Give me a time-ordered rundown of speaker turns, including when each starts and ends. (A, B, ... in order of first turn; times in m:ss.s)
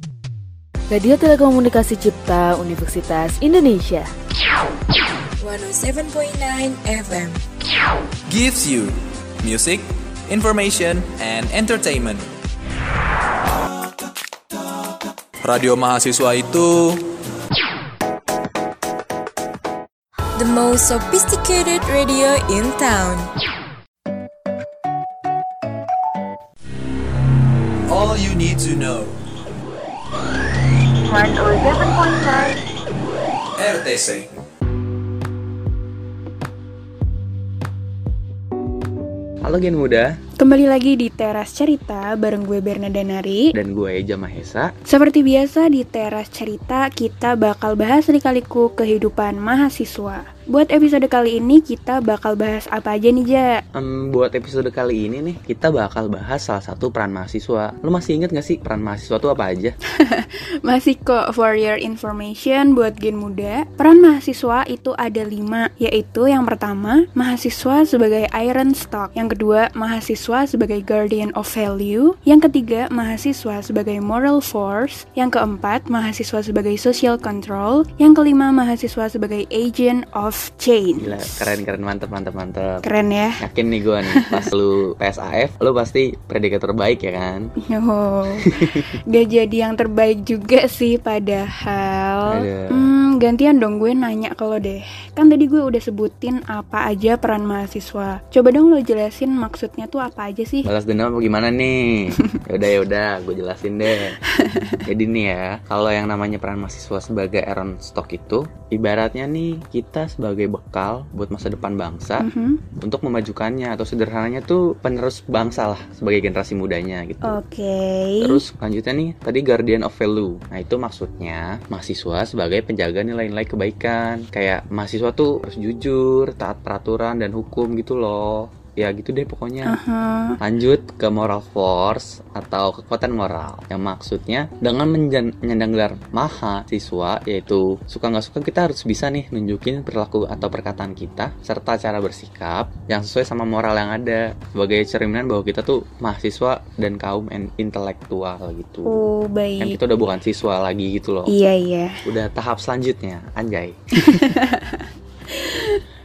0:00.9-0:04.1 A
0:05.4-0:07.4 B
0:08.3-0:12.3 C
0:15.4-0:17.2 C
0:20.4-0:23.3 B
0:27.9-0:29.2 C
0:31.1-0:32.6 D
0:31.7-0:32.4 B
0:33.6-0:34.3 C
0:39.4-0:40.2 E
0:40.4-0:43.6 D
0:43.5-0:44.7 E
0:44.9-0:53.6 D
0:53.8-0:59.8 E
0:59.9-1:21.6 D
1:21.0-1:22.8 E
1:22.8-1:23.4 D
1:23.4-1:27.5 E
1:24.1-1:24.5 D
1:27.6-1:40.7 D
1:28.3-1:28.9 E
1:32.3-1:32.9 E
1:40.6-1:44.2 E
1:43.9-1:44.8 D
1:44.8-1:57.4 E
1:52.2-1:52.6 D
1:57.2-1:58.4 D
1:58.2-2:09.8 E
2:09.6-2:10.4 D
2:10.4-2:29.0 E
2:28.9-2:29.8 D
2:29.6-2:31.3 E
2:31.3-2:32.0 D
2:32.0-2:34.3 E
2:34.0-2:35.8 D